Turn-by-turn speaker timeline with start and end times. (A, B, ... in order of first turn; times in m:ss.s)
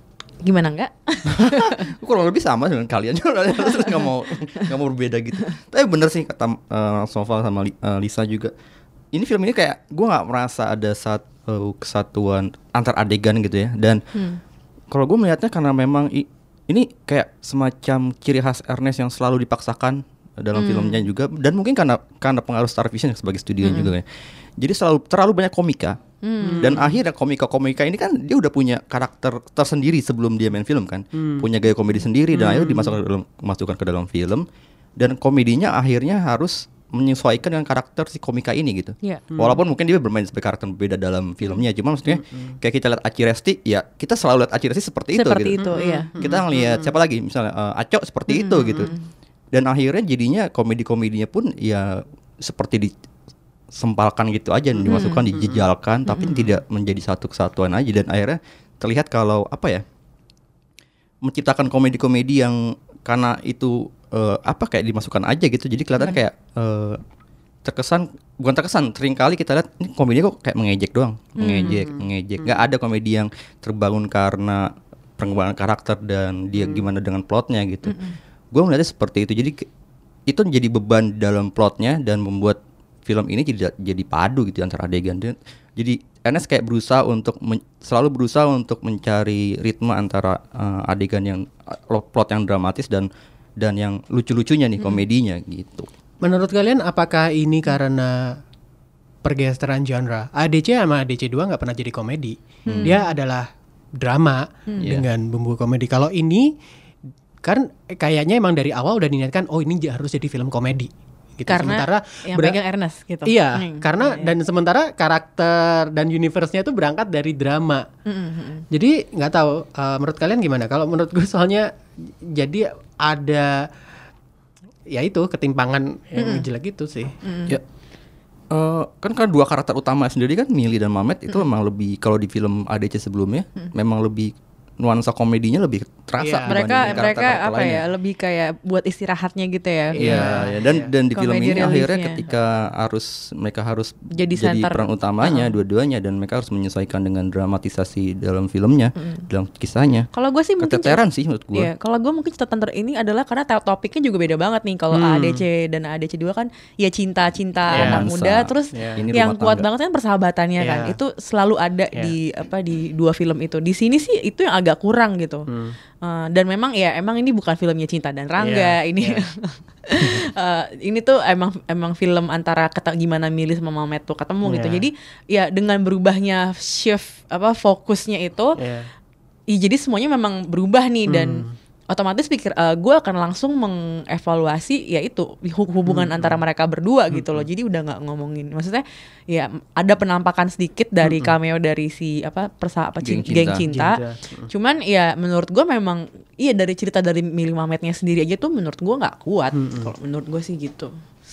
0:00.4-0:01.9 A
0:01.4-0:08.5 B
0:03.6-0:04.1 A
0:09.1-0:14.0 B
0:14.2-0:14.4 A
0:14.9-0:24.1 B
0:20.6-0:21.0 A
0:23.6-0:23.9 A
0:24.6-0:26.0 B
0:26.2-0:26.8 A
0:26.4-0:27.0 C
0:26.6-0:34.5 B
0:32.4-0:32.8 A
0:35.0-0:48.9 B
0:39.3-0:39.6 C
0:42.1-0:42.6 C
0:45.1-0:46.1 A
0:45.6-0:46.9 C
0:48.3-0:49.0 A
0:49.5-0:52.9 B
0:53.7-0:59.8 B
0:54.9-0:55.3 A
0:54.9-0:55.6 C
0:56.1-0:56.5 A
1:01.2-1:07.0 B
1:07.6-1:18.0 B
1:11.4-1:11.8 A
1:11.6-1:12.6 C
1:16.6-1:16.9 C
1:17.9-1:18.2 A
1:18.5-1:19.7 B
1:20.3-1:33.1 B
1:33.6-1:35.9 B
1:36.2-1:38.4 C
1:39.2-1:46.5 C
1:42.7-1:43.0 B
1:42.8-1:43.1 A
1:44.8-1:45.0 B
1:47.4-1:52.6 C
1:51.5-1:54.3 A
1:53.3-1:57.9 C
1:58.1-1:58.6 A
1:58.7-2:01.7 C
2:02.3-2:03.7 C
2:04.9-2:07.6 C
2:06.2-2:06.4 A
2:07.2-2:07.6 A
2:08.5-2:17.8 B
2:16.2-2:17.1 C
2:16.5-2:20.5 A
2:20.0-2:20.9 C
2:20.0-2:31.7 B
2:21.1-2:22.2 A
2:24.2-2:25.5 A
2:29.0-2:29.3 A
2:30.1-2:31.0 A
2:31.5-2:45.5 A
2:34.9-2:35.4 C
2:37.7-2:39.7 B
2:37.7-2:38.0 C
2:38.7-2:39.0 C
2:40.6-2:41.0 C
2:45.5-2:45.8 C
2:46.0-2:58.6 A
2:48.4-2:49.2 C
2:54.4-2:54.9 C
2:58.6-2:58.9 C
2:59.5-3:20.9 A
3:01.1-3:01.5 C
3:05.9-3:06.4 C
3:07.1-3:07.5 C
3:11.0-3:11.3 C
3:13.0-3:13.7 B
3:13.7-3:14.5 C
3:19.6-3:19.9 C